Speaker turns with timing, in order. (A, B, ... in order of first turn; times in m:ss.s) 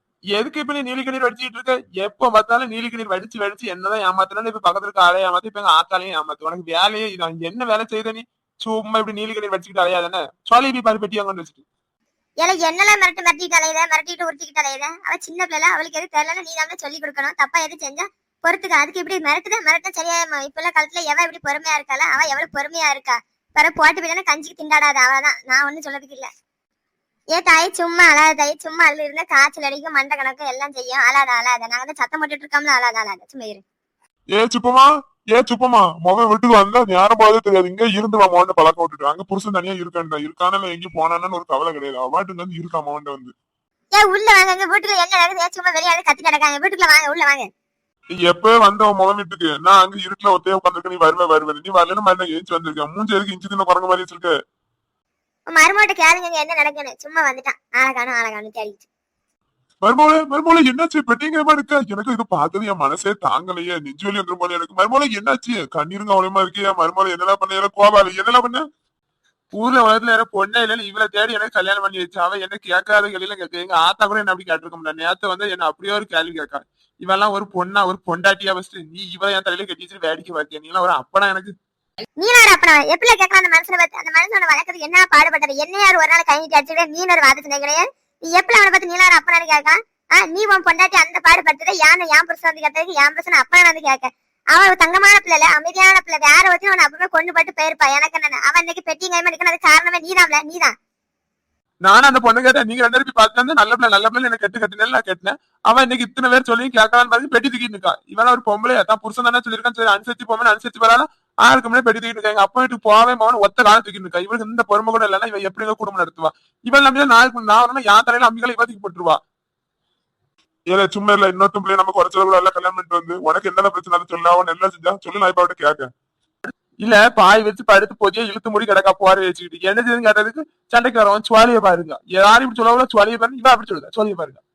0:00.4-0:01.6 A
0:00.4-0:11.6 B
0:12.4-0:26.3 C
0:27.3-0:33.6 C
0:34.4-0:43.3 A
0:44.0-0:47.5 C
0:48.1-0:54.3 A
0:55.5-0:58.9 C
0:59.8-1:08.6 A
1:09.6-1:21.5 B
1:10.6-1:16.6 A
1:18.6-1:21.5 A
1:22.2-1:40.7 C
1:41.8-1:59.2 B
2:00.7-2:05.9 A
2:06.8-2:14.4 A
2:06.9-2:14.2 B